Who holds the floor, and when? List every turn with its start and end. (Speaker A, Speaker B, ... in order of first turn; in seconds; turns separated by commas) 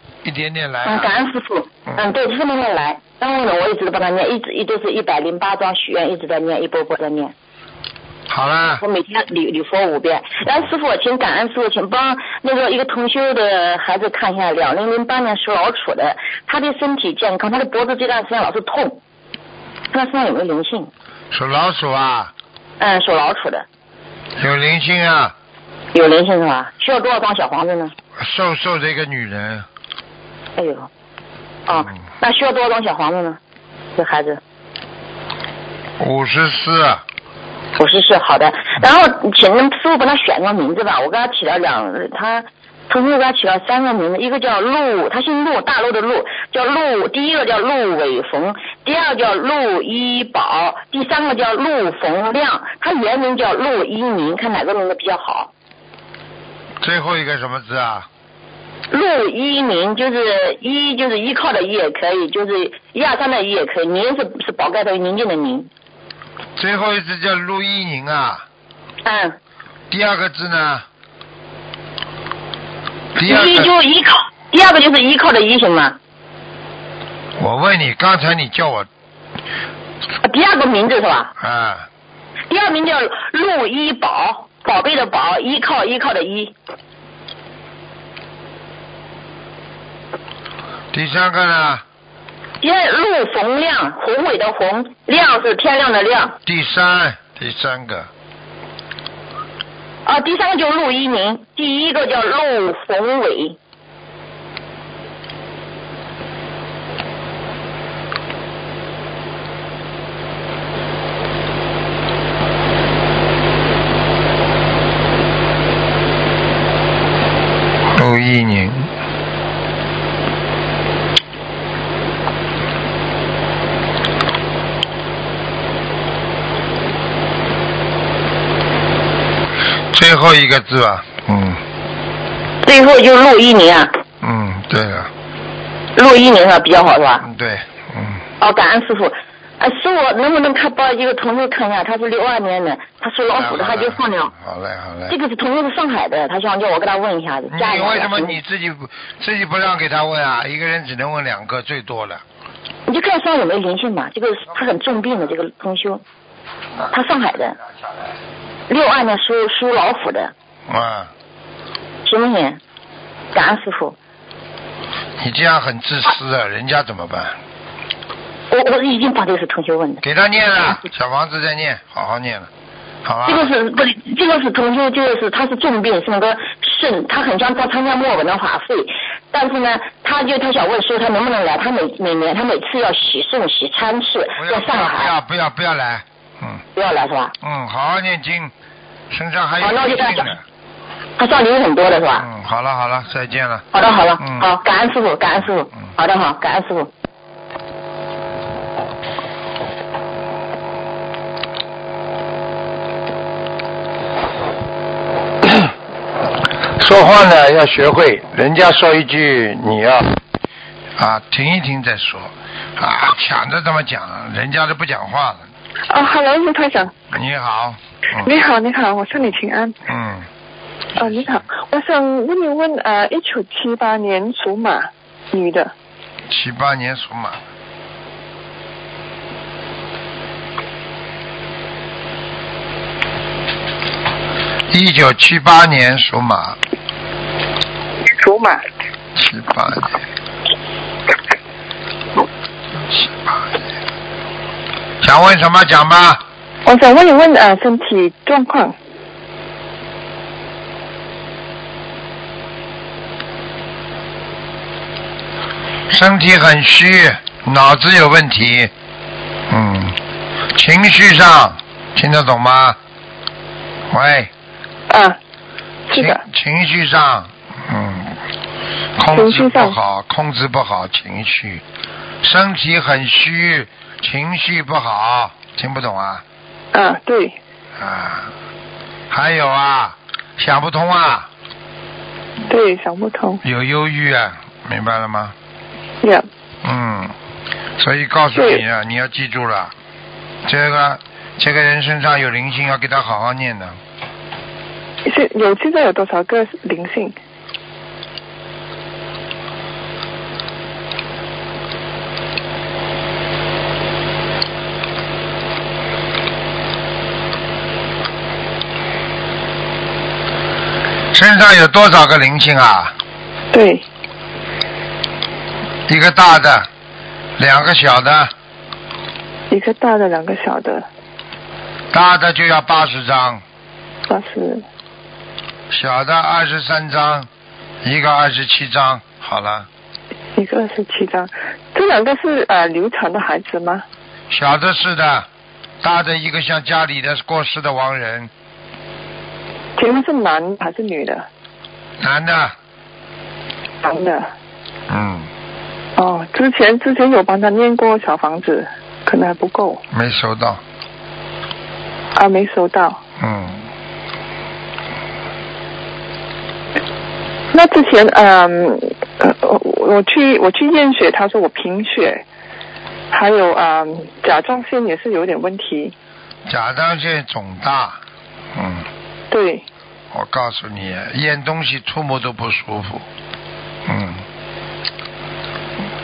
Speaker A: 0.2-1.1, Speaker B: 0.8-7.3, Speaker A: 8.3-8.8, Speaker B: 8.8-19.0, Speaker B: 19.9-20.9, Speaker A: 21.3-22.3, Speaker B: 22.8-23.7, Speaker A: 24.4-25.3, Speaker B: 25.9-27.9, Speaker A: 28.2-29.7, Speaker B: 30.6-30.9, Speaker B: 31.7-33.4, Speaker B: 34.0-34.4, Speaker A: 36.0-37.0, Speaker B: 37.8-55.5, Speaker A: 56.8-58.1, Speaker B: 58.9-65.7, Speaker A: 66.6-68.5, Speaker B: 69.0-69.4, Speaker A: 69.9-70.9, Speaker A: 73.2-73.7, Speaker B: 73.2-76.0, Speaker A: 77.4-78.9, Speaker B: 80.2-81.3, Speaker A: 81.4-81.9, Speaker B: 82.5-86.5, Speaker A: 90.9-91.8, Speaker B: 92.6-96.4, Speaker A: 96.4-98.1, Speaker B: 100.0-103.6, Speaker A: 117.9-118.9, Speaker A: 129.9-131.6, Speaker B: 132.6-134.0, Speaker A: 134.2-135.1, Speaker B: 135.9-137.2, Speaker A: 137.2-138.2, Speaker B: 138.4-144.3, Speaker A: 143.3-145.2, Speaker B: 145.1-148.4, Speaker A: 147.5-152.2, Speaker B: 152.9-156.0, Speaker B: 156.9-157.6, Speaker B: 158.7-160.3, Speaker A: 160.7-161.1, Speaker B: 162.1-162.6, Speaker B: 163.3-164.0, Speaker A: 165.2-167.4, Speaker B: 168.5-170.0, Speaker A: 170.0-172.5, Speaker A: 173.0-173.5, Speaker B: 173.3-185.1, Speaker A: 184.4-186.6, Speaker B: 186.8-187.3, Speaker A: 187.4-188.5, Speaker A: 189.1-190.4, Speaker B: 189.6-190.3, Speaker B: 191.2-192.2, Speaker A: 192.2-194.5, Speaker B: 193.7-196.9, Speaker A: 205.4-205.7, Speaker A: 206.8-210.2, Speaker A: 211.0-215.5, Speaker C: 215.9-216.9, Speaker A: 217.1-218.3, Speaker C: 218.2-219.8, Speaker A: 219.9-220.3, Speaker A: 221.0-221.4, Speaker C: 221.0-225.7, Speaker A: 226.3-227.4, Speaker A: 234.7-236.6, Speaker C: 238.2-238.6, Speaker A: 239.2-239.9, Speaker A: 242.9-243.4, Speaker A: 245.0-246.2, Speaker C: 246.7-248.8, Speaker A: 255.9-258.7, Speaker A: 259.5-260.0, Speaker A: 260.5-262.8, Speaker A: 263.9-264.3, Speaker C: 264.9-265.2, Speaker C: 265.9-266.2, Speaker A: 265.9-268.2, Speaker A: 269.0-271.6, Speaker C: 269.1-269.8, Speaker A: 272.2-276.2, Speaker C: 276.7-277.4, Speaker A: 277.8-278.3, Speaker A: 279.1-281.3, Speaker C: 282.5-283.4, Speaker A: 283.4-285.4, Speaker A: 286.6-287.1, Speaker A: 287.8-289.7, Speaker C: 288.4-288.6, Speaker A: 290.4-293.8, Speaker C: 295.1-297.2, Speaker A: 311.1-312.9, Speaker C: 313.5-313.8, Speaker A: 315.9-316.7, Speaker A: 317.4-318.3, Speaker C: 319.5-320.9, Speaker A: 321.9-323.4, Speaker C: 324.1-324.6, Speaker A: 325.7-327.3, Speaker A: 327.8-329.7, Speaker C: 330.4-333.8, Speaker A: 334.3-335.3, Speaker A: 335.8-338.3, Speaker C: 339.8-341.3, Speaker A: 342.0-342.6, Speaker C: 343.8-344.3, Speaker A: 344.9-345.3, Speaker C: 346.0-349.8, Speaker A: 349.9-350.6, Speaker C: 352.1-353.0, Speaker A: 353.2-353.7, Speaker C: 357.5-362.2, Speaker C: 363.1-365.9, Speaker A: 366.5-368.0, Speaker A: 368.5-368.9, Speaker C: 369.3-369.6, Speaker A: 370.1-373.1, Speaker A: 373.9-374.3